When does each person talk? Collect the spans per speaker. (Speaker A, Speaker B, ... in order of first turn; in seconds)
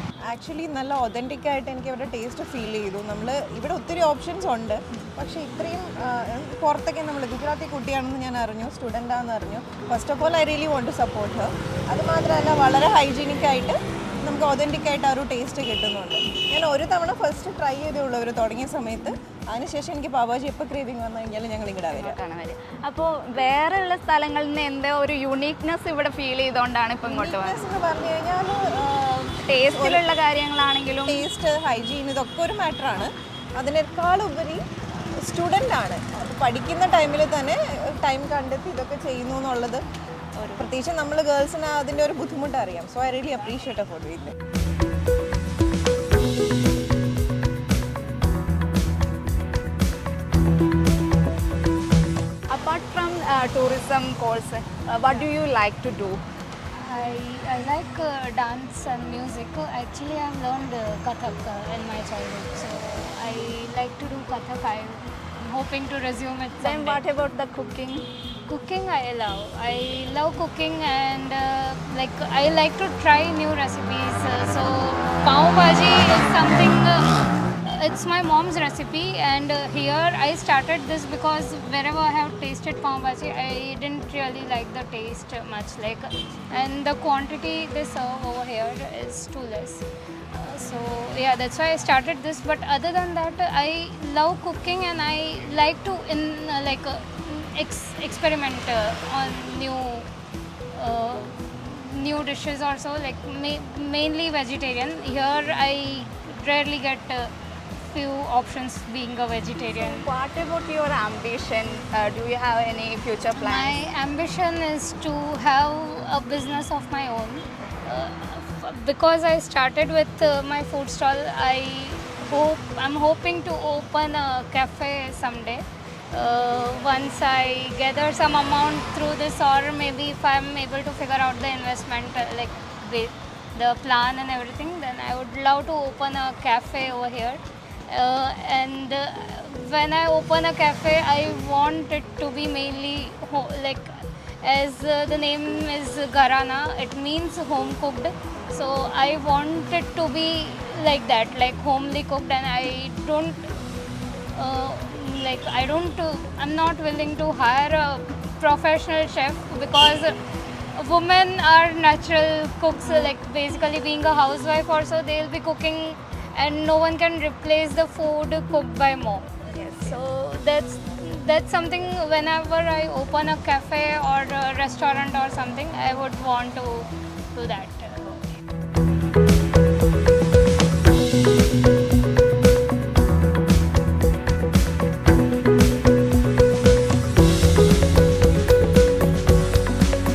Speaker A: 0.3-22.2, 27.0-30.1, 31.0-34.6, 35.2-39.8, 40.5-44.3
Speaker B: 21.9-27.6, 29.4-31.2, 52.5-56.2, 66.6-68.0, 109.8-113.8
Speaker C: 56.7-67.0, 68.5-100.1, 100.7-110.1, 113.3-153.5, 154.3-160.1, 160.7-178.2